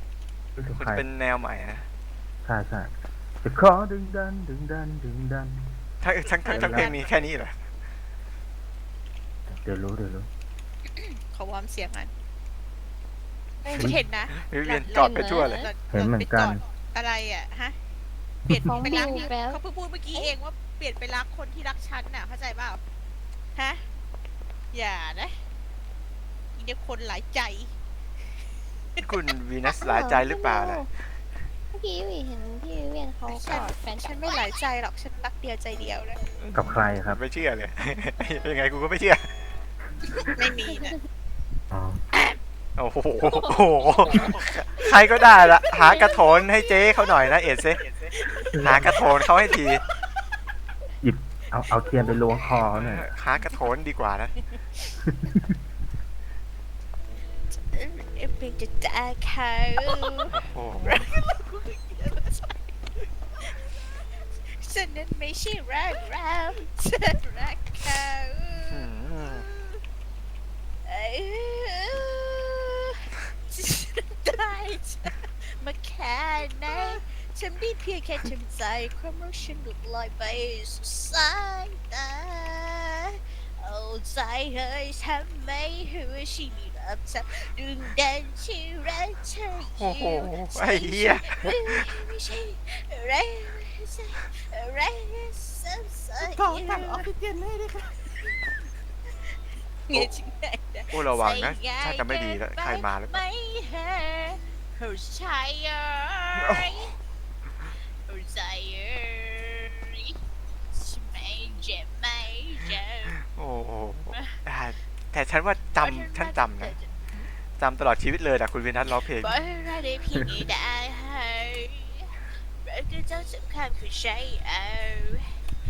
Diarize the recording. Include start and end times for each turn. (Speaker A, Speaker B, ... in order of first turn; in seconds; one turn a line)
Speaker A: 0.6-1.1
Speaker B: 0.8-1.9
Speaker A: 2.5-2.9
Speaker A: 3.4-5.7
Speaker B: 6.0-7.6
Speaker C: 6.5-7.0
Speaker A: 6.5-7.0
Speaker A: 9.5-10.3
Speaker C: 11.0-12.1
Speaker C: 13.7-17.8
Speaker B: 14.3-15.7
Speaker D: 15.0-15.7
Speaker A: 15.9-16.6
Speaker C: 18.5-22.8
Speaker D: 18.6-19.6
Speaker C: 23.6-23.9
Speaker C: 24.7-25.4
Speaker C: 26.6-27.8
Speaker B: 29.0-30.9
Speaker D: 29.8-30.9
Speaker D: 31.7-34.3
Speaker C: 33.3-36.2
Speaker B: 36.4-39.3
Speaker A: 36.5-37.2
Speaker C: 40.4-41.0
Speaker A: 41.7-42.0
Speaker B: 42.8-47.8
Speaker D: 43.3-43.5
Speaker C: 45.6-46.3
Speaker C: 48.1-49.6
Speaker B: 48.6-49.8
Speaker A: 51.0-53.0
Speaker C: 51.8-52.4
Speaker B: 52.7-54.3
Speaker A: 55.0-55.5
Speaker C: 57.7-60.3
Speaker B: 60.3-61.1
Speaker E: 60.8-62.5
Speaker C: 64.5-68.8
Speaker B: 68.7-69.5
Speaker E: 69.2-69.8
Speaker C: 70.9-97.1
Speaker B: 89.8-91.9
Speaker E: 96.2-97.9
Speaker C: 99.9-106.9
Speaker B: 100.9-103.2
Speaker B: 106.4-107.0
Speaker C: 108.1-110.2
Speaker C: 110.7-113.2
Speaker B: 113.2-116.8
Speaker C: 115.8-116.9
Speaker B: 117.6-119.3
Speaker C: 119.0-125.4